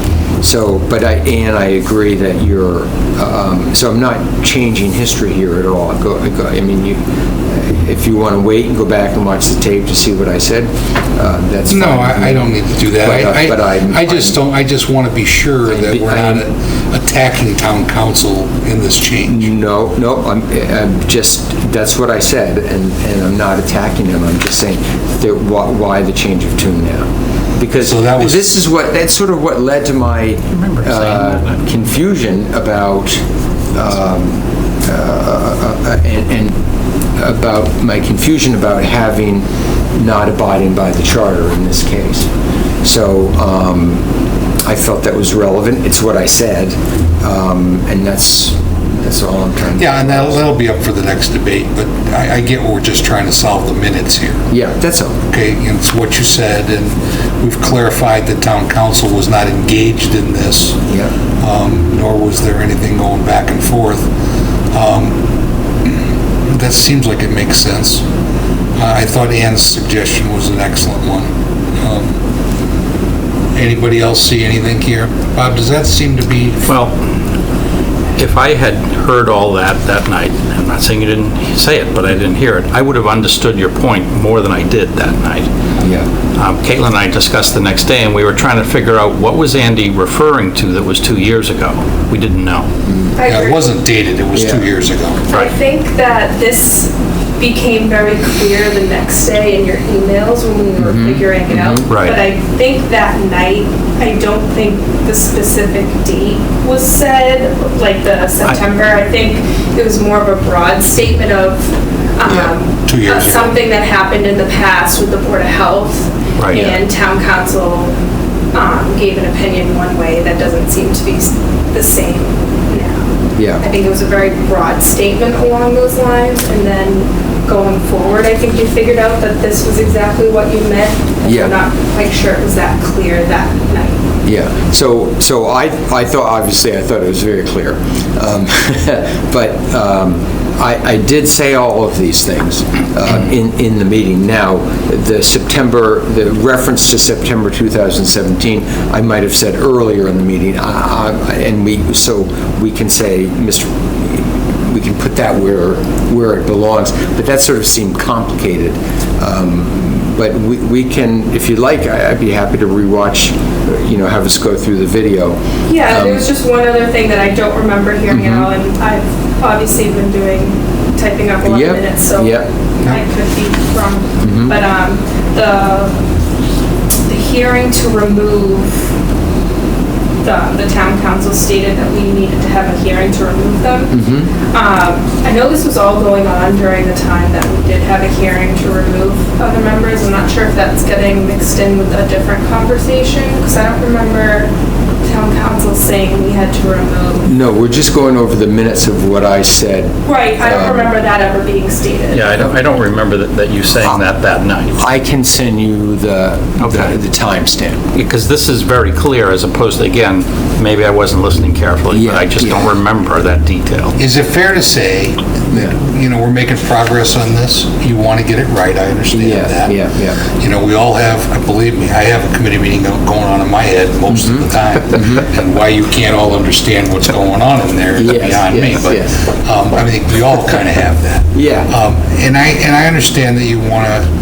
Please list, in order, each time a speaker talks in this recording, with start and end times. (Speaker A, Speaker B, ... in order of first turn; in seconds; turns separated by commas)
Speaker A: 0.4-14.4, Speaker B: 11.7-19.5, Speaker A: 15.7-16.5, Speaker A: 19.2-33.2, Speaker B: 27.8-28.5, Speaker C: 30.5-31.6, Speaker A: 33.7-36.6, Speaker A: 37.2-42.3, Speaker A: 42.8-44.0, Speaker A: 44.6-50.4, Speaker B: 49.8-54.5, Speaker A: 54.5-55.2, Speaker B: 55.3-60.8, Speaker B: 61.4-64.1, Speaker B: 64.7-65.2, Speaker B: 66.5-68.0, Speaker B: 68.8-71.3, Speaker B: 71.8-72.1, Speaker B: 73.5-76.7, Speaker C: 76.7-77.0, Speaker C: 78.2-85.5, Speaker A: 85.8-86.1, Speaker C: 86.3-92.7, Speaker A: 92.9-93.2, Speaker D: 93.2-93.7, Speaker B: 93.3-95.3, Speaker A: 94.3-94.6, Speaker D: 95.3-117.9, Speaker A: 100.8-101.9, Speaker C: 101.9-102.2, Speaker A: 112.3-112.5, Speaker B: 112.9-113.6, Speaker A: 116.5-116.8, Speaker D: 118.5-123.0, Speaker A: 123.4-123.7, Speaker D: 123.6-134.0, Speaker A: 131.3-131.6, Speaker A: 134.2-166.3, Speaker D: 165.7-175.9, Speaker A: 168.1-168.5, Speaker A: 171.4-172.5, Speaker A: 174.2-174.6, Speaker D: 177.1-178.9, Speaker D: 180.2-183.9, Speaker A: 183.9-184.3, Speaker D: 184.5-194.5, Speaker D: 195.0-197.3, Speaker A: 197.2-200.9, Speaker D: 200.1-202.4, Speaker C: 202.1-204.8, Speaker A: 202.3-202.6, Speaker A: 204.8-207.8, Speaker C: 206.6-207.0, Speaker C: 207.9-213.9, Speaker A: 211.9-212.7, Speaker B: 214.0-219.8, Speaker A: 219.1-220.2, Speaker B: 220.3-234.1, Speaker A: 224.1-225.3, Speaker A: 228.0-229.2, Speaker A: 231.3-231.7